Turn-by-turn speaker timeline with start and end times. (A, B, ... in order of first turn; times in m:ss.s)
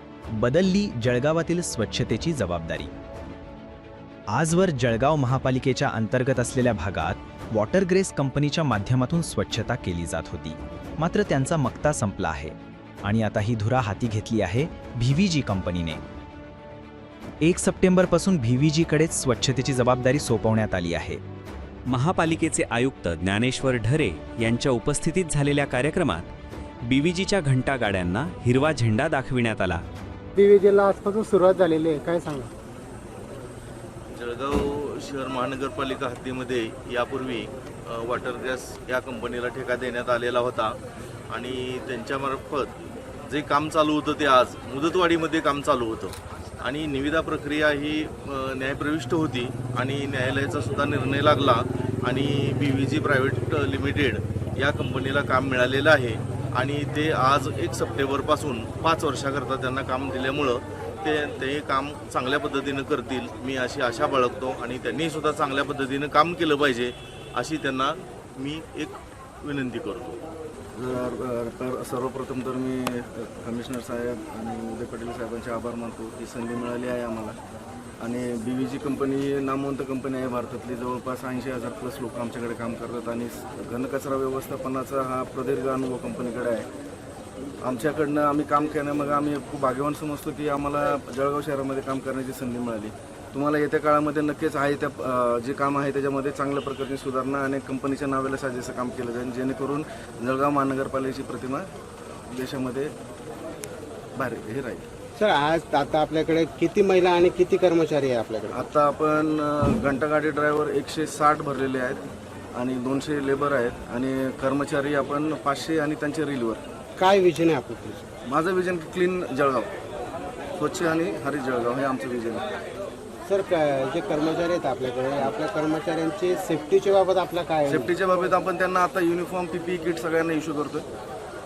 0:00.4-0:02.9 A
0:04.3-0:16.0 A
0:17.4-0:21.2 A
0:21.9-0:26.3 B
0:26.9-0:29.8 B
0:30.4-0:32.4 C
0:34.1-0:40.8 D
0:41.3-1:10.2 D
1:10.7-1:17.4 E
1:18.0-1:26.7 E
1:27.6-1:42.9 E
1:44.2-1:44.9 E
1:45.2-1:48.6 C
1:48.5-1:56.6 E
1:57.0-1:58.0 C
1:58.3-1:59.7 E
2:00.6-2:02.5 E
2:03.3-2:07.9 C
2:07.7-2:10.9 E